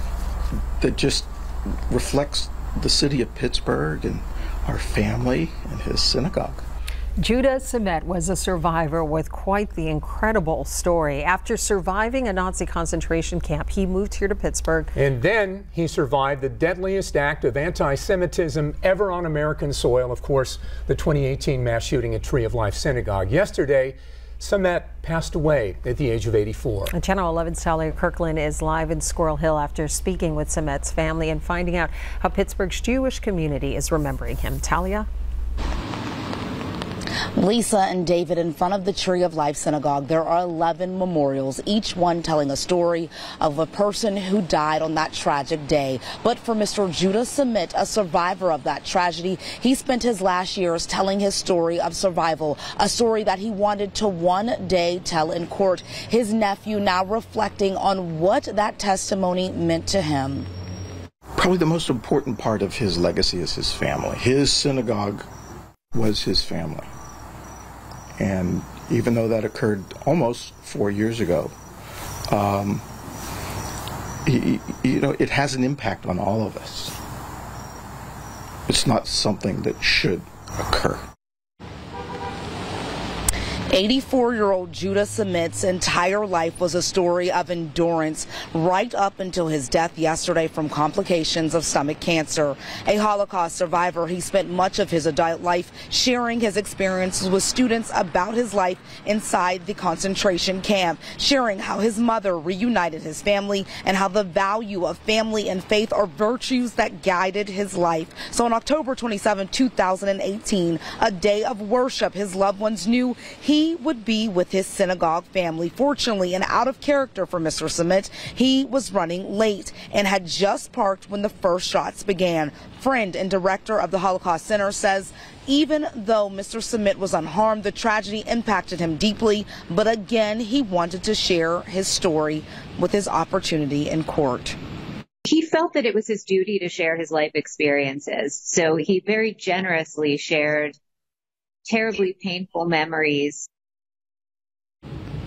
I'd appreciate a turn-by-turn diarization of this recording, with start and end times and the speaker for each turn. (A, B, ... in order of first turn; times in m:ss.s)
0:00.8-0:01.3 A
0:01.9-0:06.6 A
0:07.2-0:14.9 B
0:15.0-0:26.9 C
0:26.9-0:35.1 B
0:37.4-1:00.5 D
1:01.4-1:05.3 A
1:05.9-1:06.9 A
1:08.2-1:11.5 A
1:12.3-1:12.8 A
1:14.2-1:17.0 A
1:18.7-1:21.0 A
1:23.7-2:14.6 D
2:15.2-2:20.8 E
2:21.7-2:23.5 E